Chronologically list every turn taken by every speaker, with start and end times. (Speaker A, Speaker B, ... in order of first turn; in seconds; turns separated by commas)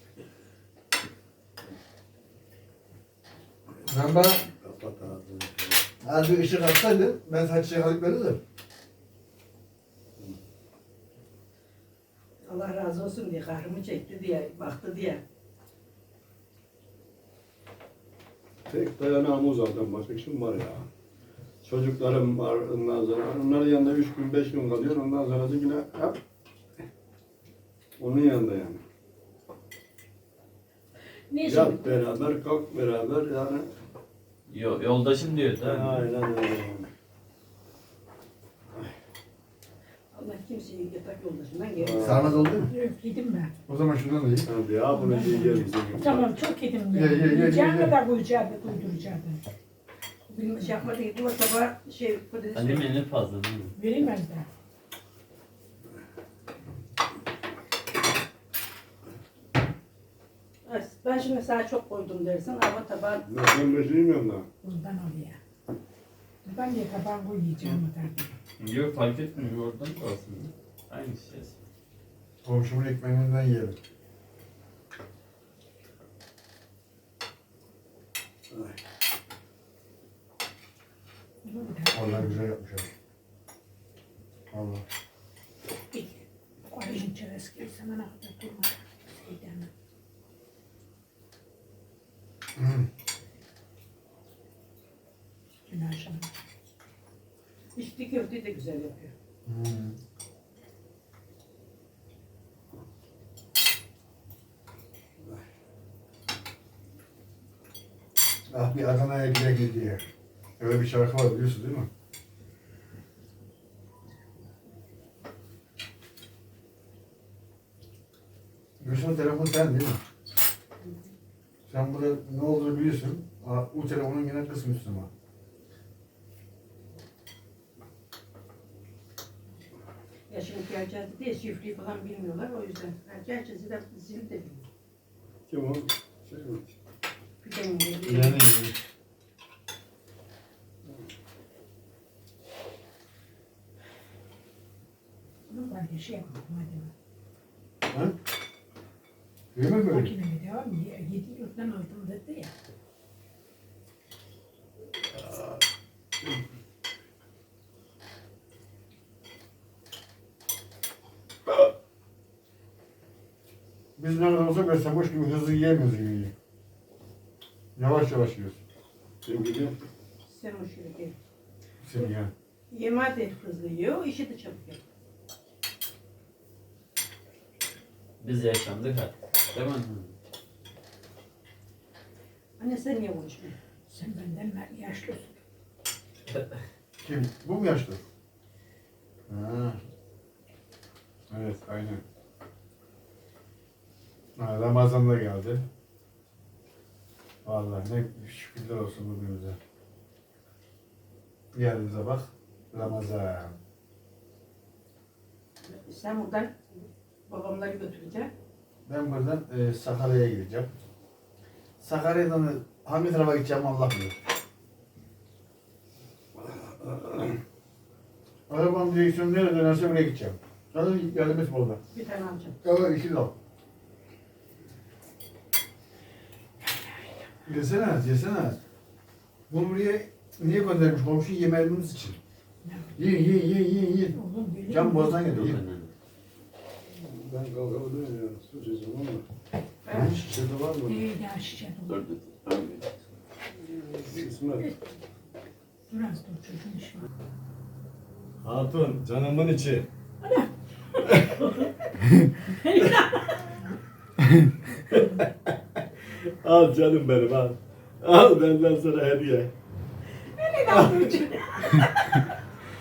Speaker A: 3.8-4.4, Speaker B: 4.4-5.8, Speaker A: 6.0-8.4, Speaker C: 12.4-15.2, Speaker B: 18.7-20.9, Speaker B: 21.6-26.2, Speaker B: 28.0-28.8, Speaker D: 31.3-32.0, Speaker B: 31.4-33.7, Speaker E: 34.5-36.1, Speaker B: 35.6-36.9, Speaker C: 40.1-42.2, Speaker B: 41.8-42.5, Speaker A: 42.0-42.7, Speaker D: 42.7-43.5, Speaker A: 43.7-44.5, Speaker B: 44.4-46.4, Speaker D: 44.9-49.4, Speaker A: 46.9-48.0, Speaker C: 50.3-52.9, Speaker E: 52.5-53.7, Speaker D: 53.7-54.5, Speaker C: 60.6-63.2, Speaker B: 63.2-64.5, Speaker D: 64.6-65.4, Speaker D: 66.4-68.3, Speaker E: 68.6-71.6, Speaker A: 72.4-73.8, Speaker B: 78.5-78.8, Speaker D: 81.4-82.3, Speaker A: 81.9-82.9, Speaker A: 84.5-84.8, Speaker D: 85.9-89.7, Speaker A: 92.5-92.9, Speaker D: 95.7-96.3, Speaker C: 97.8-99.1, Speaker A: 99.5-100.0, Speaker A: 108.5-110.0, Speaker A: 110.6-111.9, Speaker A: 118.8-120.0, Speaker A: 121.7-125.1, Speaker C: 130.3-134.7, Speaker B: 135.5-136.7, Speaker C: 137.4-138.4, Speaker A: 138.1-138.8, Speaker D: 145.5-146.9, Speaker A: 147.9-148.1, Speaker A: 149.5-150.1, Speaker D: 149.9-152.5, Speaker B: 155.2-155.6, Speaker A: 164.0-166.3, Speaker A: 167.8-168.6, Speaker B: 169.2-169.7, Speaker C: 170.2-171.1, Speaker A: 171.8-172.3, Speaker C: 172.7-174.8, Speaker E: 178.2-180.1, Speaker C: 182.6-183.6, Speaker D: 183.9-185.3, Speaker A: 187.0-188.0, Speaker A: 189.3-189.8, Speaker A: 191.3-192.0, Speaker A: 194.4-195.6, Speaker A: 197.4-199.6, Speaker A: 201.5-203.6, Speaker C: 205.6-208.3, Speaker A: 208.8-210.7, Speaker A: 211.8-214.2, Speaker B: 216.4-217.3, Speaker A: 218.5-221.8, Speaker C: 221.9-222.6, Speaker A: 222.6-223.3, Speaker D: 226.6-227.2, Speaker A: 227.4-228.6, Speaker A: 229.5-232.2, Speaker D: 232.6-232.9, Speaker A: 233.0-234.2, Speaker D: 234.1-235.2, Speaker A: 234.7-235.6, Speaker E: 235.3-235.9, Speaker B: 236.9-239.2, Speaker C: 239.8-240.2, Speaker A: 239.9-240.2, Speaker B: 240.0-241.1, Speaker D: 240.8-242.0, Speaker E: 241.9-242.8, Speaker B: 243.6-244.7, Speaker D: 245.9-247.1, Speaker B: 248.4-249.9, Speaker D: 250.2-250.5, Speaker D: 251.1-251.7, Speaker D: 252.5-253.6, Speaker B: 254.9-259.5, Speaker D: 260.3-262.2, Speaker B: 260.6-261.2